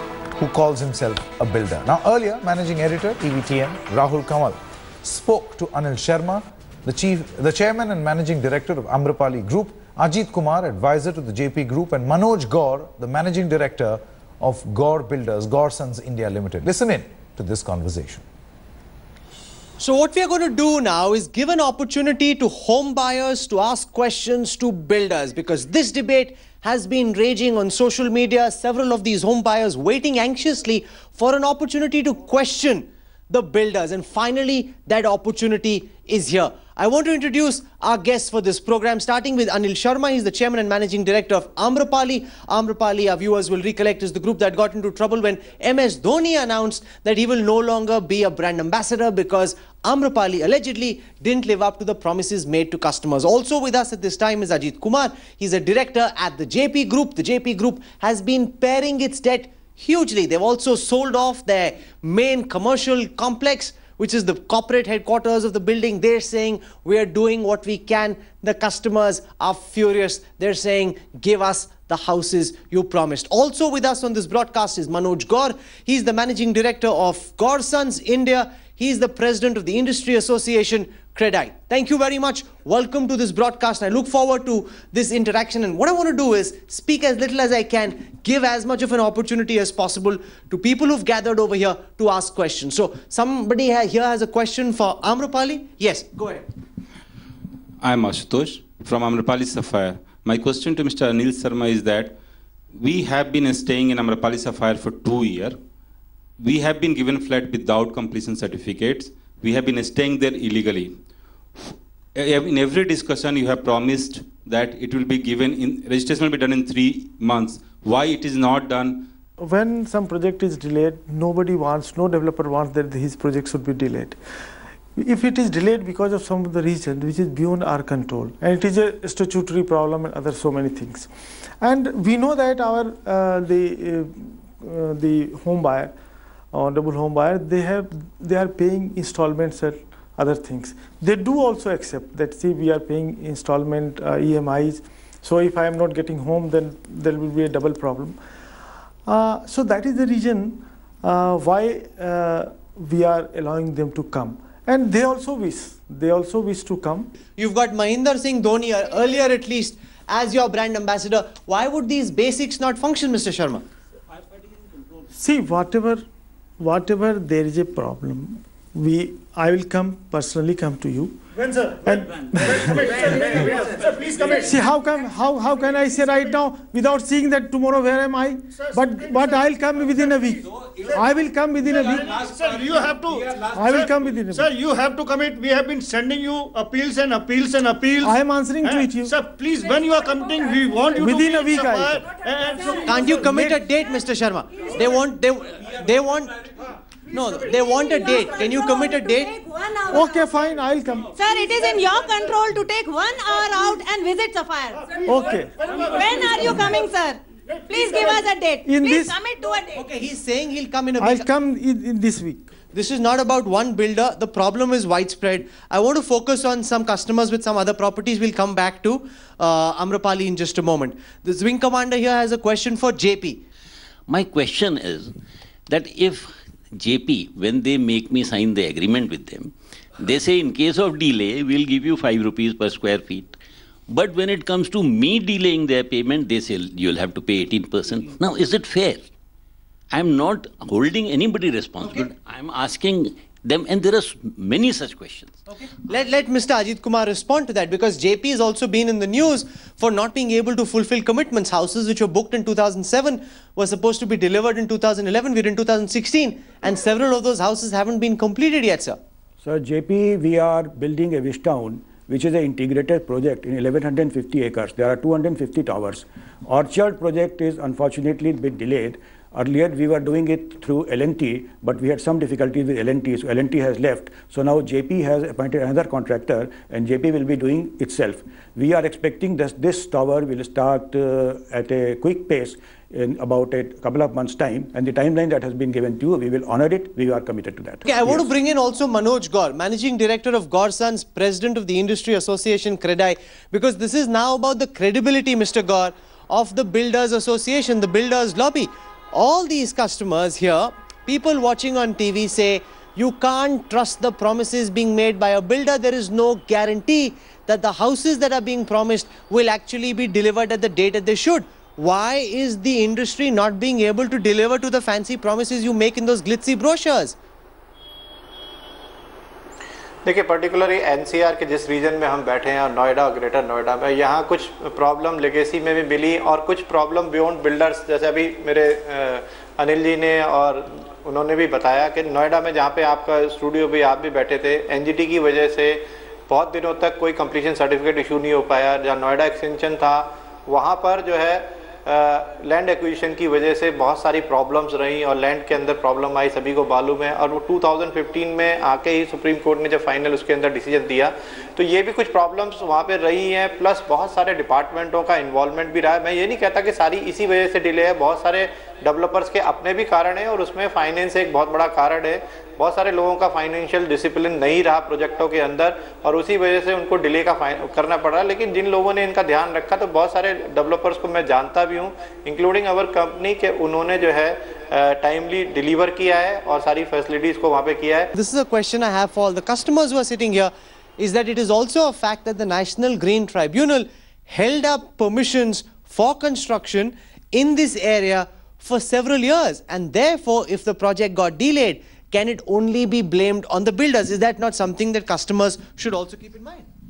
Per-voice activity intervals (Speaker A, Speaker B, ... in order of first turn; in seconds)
Speaker A: 0.4-18.2
Speaker B: 19.8-96.5, 157.3-163.6, 192.9-196.4, 197.1-199.3, 209.8-211.3, 212.7-223.4, 245.9-259.0, 287.9-317.2, 378.1-396.7
Speaker C: 97.8-102.2, 102.7-105.6, 106.4-111.0, 111.6-119.1
Speaker D: 119.4-124.2, 125.0-131.1, 131.6-135.9, 136.5-148.2, 149.1-157.1, 165.2-166.0, 166.6-171.2, 171.8-173.4, 174.4-182.2, 183.5-184.5, 188.0-189.1, 191.0-192.1, 193.2-193.6, 199.9-201.1, 205.1-205.7, 208.7-209.2, 211.0-212.5
Speaker E: 171.4-174.5, 178.6-179.4, 181.7-193.2
Speaker F: 198.3-200.3, 201.2-204.9, 205.8-209.8
Speaker G: 224.1-225.2, 225.7-233.4, 233.9-239.1, 239.9-245.4
Speaker H: 259.4-288.3
Speaker I: 320.1-378.1